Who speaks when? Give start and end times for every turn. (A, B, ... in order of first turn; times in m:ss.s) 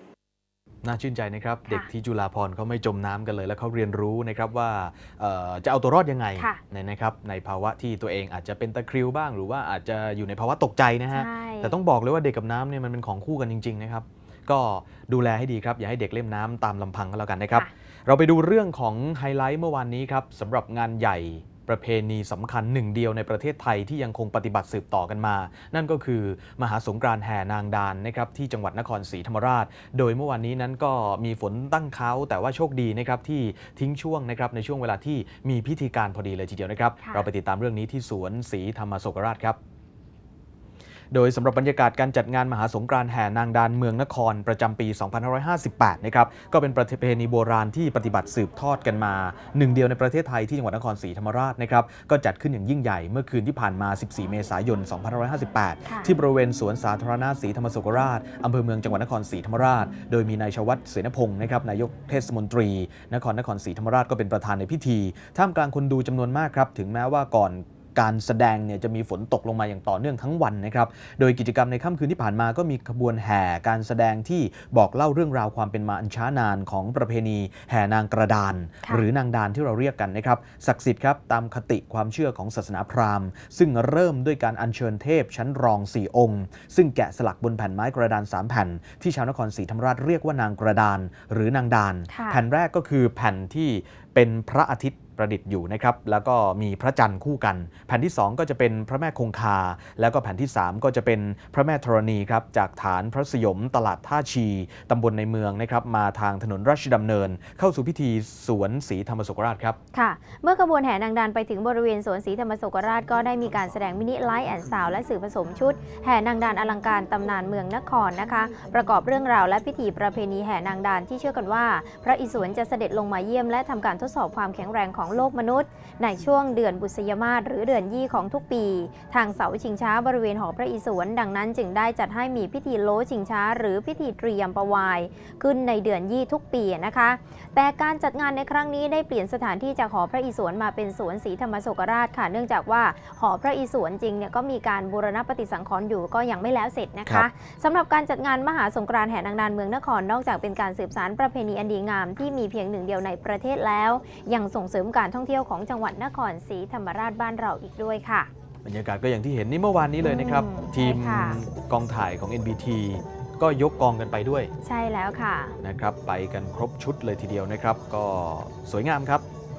0:00.8-0:39.6 A
0:11.1-0:11.8 B
0:37.0-0:37.3 B
0:41.1-1:49.8 A
0:55.8-0:56.1 B
1:32.1-1:32.4 B
1:49.9-2:38.3 B
2:38.6-2:44.5 A
2:40.0-2:41.4 B
2:44.6-2:45.6 B
2:45.6-2:49.2 A